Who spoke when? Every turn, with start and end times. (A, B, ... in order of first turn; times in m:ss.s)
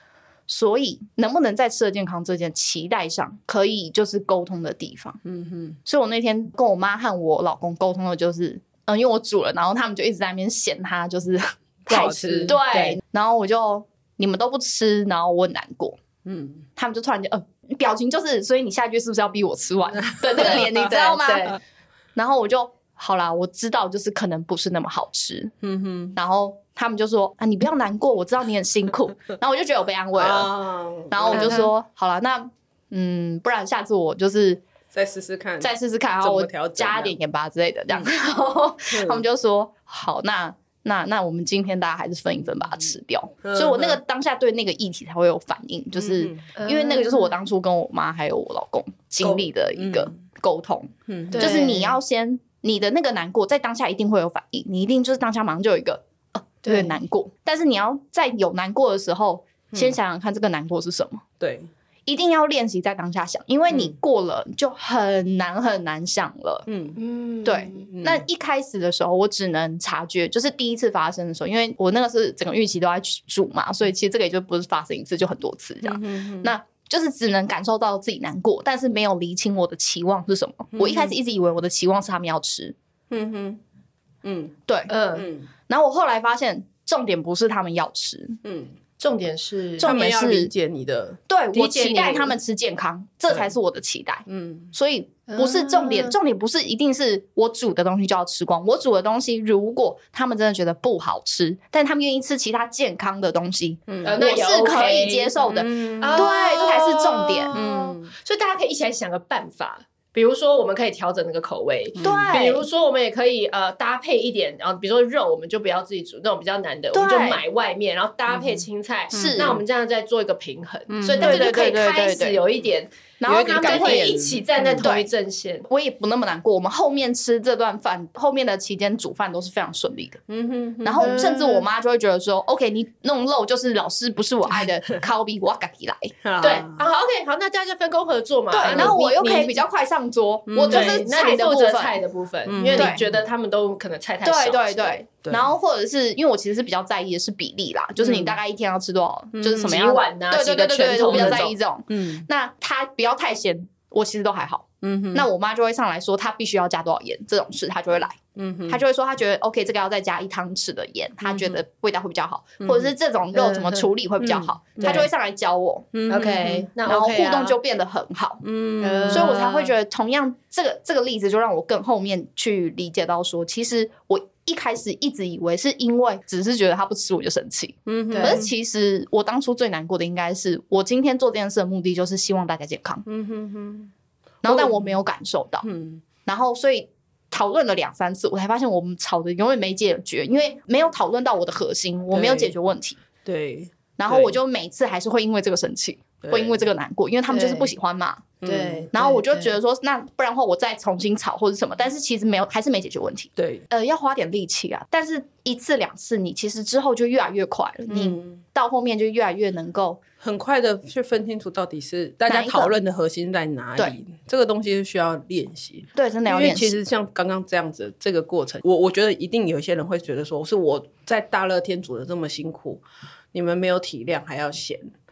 0:00.5-0:05.2 A
0:05.2-0:05.8 B
0:05.8-0:16.0 A
0:11.9-0:12.6 B
0:11.9-0:13.0 C
0:16.2-0:16.6 B
0:16.8-0:21.6 A
0:20.0-0:21.0 B
0:20.4-0:21.6 C
0:22.2-0:25.5 A
0:25.6-0:26.2 B
0:26.2-0:30.5 A
0:30.1-0:31.6 B
0:31.1-0:34.6 A
0:31.3-0:31.7 C
0:34.9-0:37.2 B
0:35.6-1:01.2 A
0:38.9-0:39.2 B
0:43.4-0:44.0 B
0:46.0-0:46.5 B
0:46.6-0:47.3 C
0:49.2-0:50.2 B
0:51.1-0:51.6 B
0:51.3-0:52.0 C
0:56.6-0:56.9 C
1:01.4-1:01.7 B
1:02.1-1:06.7 A
1:03.7-1:04.0 B
1:06.7-1:07.0 B
1:07.0-1:07.9 C
1:07.4-1:22.8 A
1:07.9-1:08.2 B
1:15.8-1:16.5 B
1:20.7-1:21.2 B
1:23.1-1:23.6 B
1:24.2-1:24.6 B
1:24.7-1:24.9 A
1:24.9-1:25.3 C
1:25.2-1:25.5 B
1:25.7-1:28.4 A
1:28.4-1:28.7 B
1:29.0-1:29.9 C
1:29.8-1:30.5 A
1:29.8-1:31.2 B
1:31.3-1:47.6 A
1:31.5-1:32.4 C
1:34.3-1:34.7 B
1:35.3-1:36.2 C
1:43.9-1:44.2 B
1:44.0-1:45.4 C
1:45.5-1:46.3 B
1:46.0-2:05.7 C
1:47.5-1:48.1 B
1:52.0-1:52.4 B
1:52.0-1:52.6 A
1:56.9-1:57.4 A
1:58.3-1:59.6 B
1:59.1-1:59.6 A
2:00.9-2:01.5 B
2:01.1-2:02.4 A
2:03.2-2:04.1 A
2:03.3-2:04.9 B
2:04.8-2:05.1 A
2:05.7-2:10.2 A
2:10.3-2:11.2 B
2:10.8-2:16.1 A
2:11.0-2:11.7 C
2:16.2-2:16.9 B
2:16.4-2:19.6 C
2:18.5-2:22.0 A
2:18.7-2:19.0 B
2:20.5-2:21.0 B
2:20.7-2:25.0 C
2:22.5-2:23.2 B
2:22.7-2:23.0 A
2:24.2-2:45.9 A
2:28.0-2:28.4 B
2:29.3-2:29.8 B
2:29.6-2:31.5 C
2:31.1-2:32.2 B
2:34.8-2:35.3 B
2:38.4-2:38.8 B
2:41.2-2:41.6 B
2:42.6-2:42.9 B
2:43.3-2:43.9 C
2:44.2-2:45.1 B
2:44.8-2:45.1 C
2:45.9-2:46.7 B
2:46.1-2:47.6 C
2:46.8-2:48.4 A
2:48.4-2:49.4 B
2:48.8-2:49.7 C
2:49.1-3:03.0 A
2:57.9-2:58.5 B
2:58.1-2:58.5 C
3:03.1-3:03.9 B
3:04.4-3:05.7 A
3:04.4-3:04.9 B
3:05.6-3:06.0 B
3:06.2-3:13.0 A
3:12.1-3:12.6 B
3:13.2-3:14.4 B
3:14.0-3:18.3 A
3:16.2-3:16.6 B
3:17.3-3:17.7 C
3:18.4-3:18.9 B
3:18.4-3:19.5 C
3:18.9-3:30.0 A
3:23.4-3:23.7 B
3:27.9-3:28.4 B
3:30.2-3:44.9 B
3:32.3-3:32.7 A
3:36.0-3:36.8 A